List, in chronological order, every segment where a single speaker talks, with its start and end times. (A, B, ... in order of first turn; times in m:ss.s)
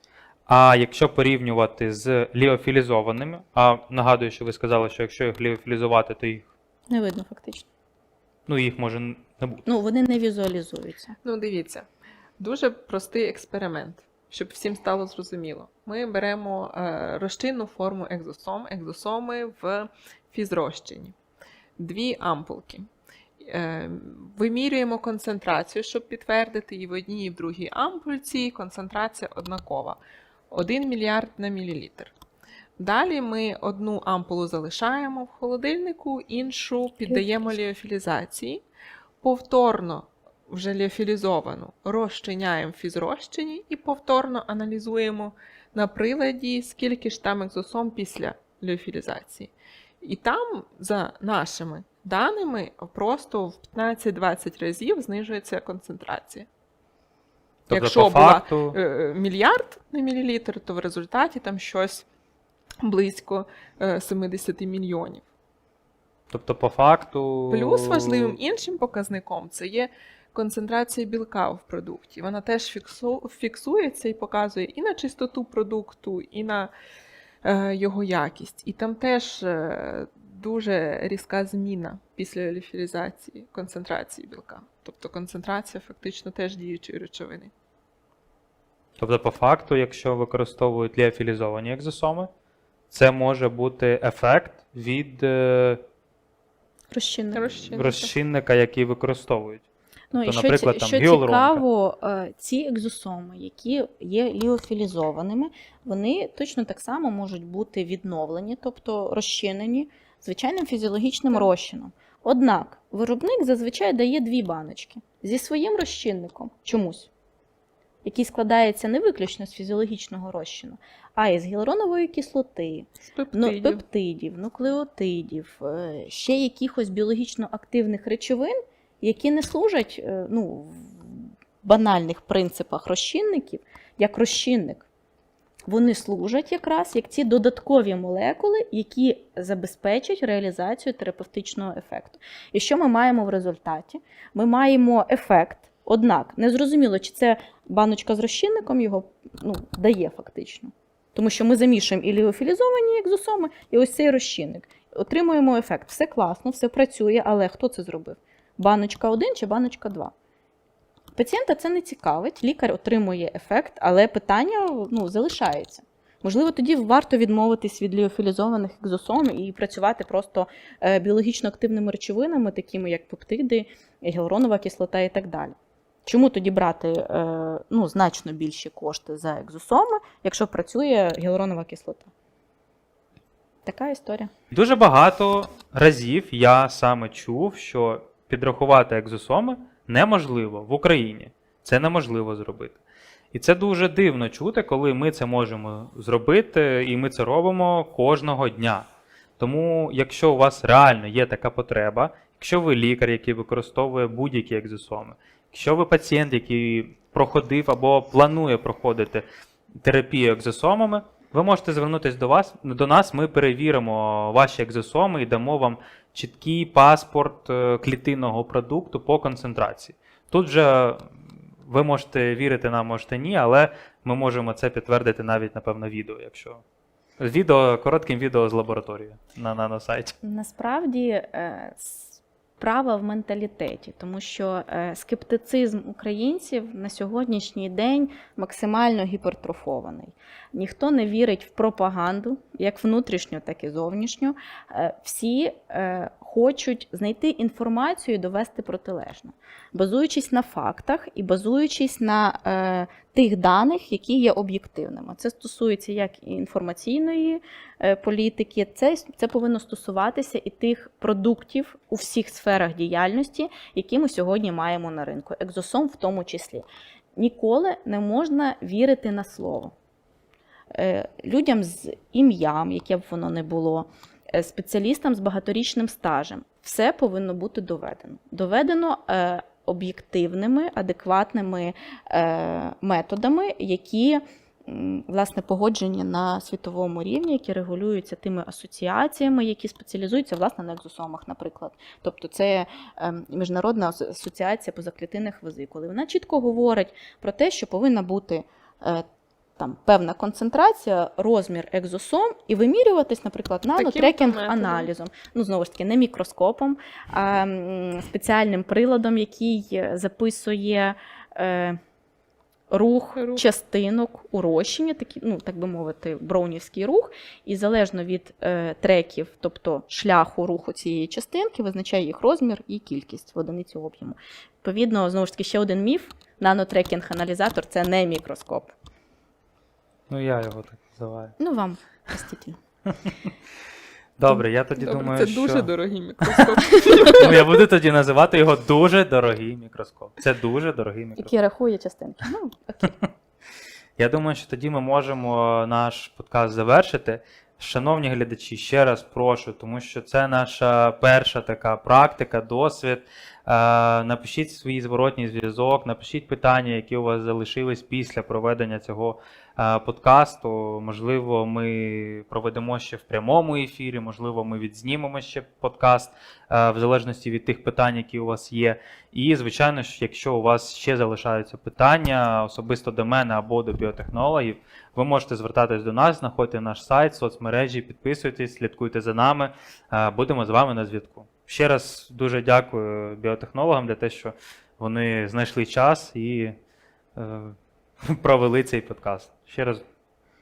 0:00.5-0:06.5 A
0:06.9-0:07.6 B
0:08.5-0:09.6 A
0:09.6-0:11.2 B
0:11.2-0:11.8 C
0:12.4-0:21.1 C
0:21.8-0:22.9 C
0:23.4-0:30.0 C
0:30.5-0:32.1 C
0:32.8-0:38.6 C
0:39.2-0:56.5 C
0:57.7-0:58.8 A
0:57.7-1:02.0 C
1:02.8-1:05.2 C
1:06.3-1:08.4 A
1:07.5-1:16.7 C
1:17.4-1:27.5 C
1:29.0-1:32.3 A
1:32.9-1:35.8 A
1:36.9-1:37.5 B
1:37.3-1:38.1 C
1:37.7-1:39.6 A
1:40.1-1:57.1 B
1:40.2-1:41.6 A
1:58.0-2:14.8 B
2:03.1-2:03.8 C
2:15.7-2:40.1 B
2:41.1-2:55.5 B
2:56.0-3:02.1 B
3:03.6-3:04.3 B
3:04.5-3:12.8 A
3:13.3-3:18.9 A
3:19.4-3:29.2 A
3:29.8-3:41.1 A
3:41.6-3:46.6 A
3:47.2-3:50.1 A
3:50.2-4:29.7 B
4:30.7-4:59.0 B
4:59.6-5:11.8 B
5:03.7-5:04.9 C
5:12.7-5:28.7 B
5:13.2-5:13.4 C
5:30.1-5:31.3 A
5:31.4-5:32.6 B
5:34.2-5:35.7 A
5:34.8-5:37.4 C
5:37.0-5:41.3 A
5:41.2-5:42.9 B
5:44.0-6:26.6 A
6:27.2-6:27.6 A
6:28.1-6:29.8 A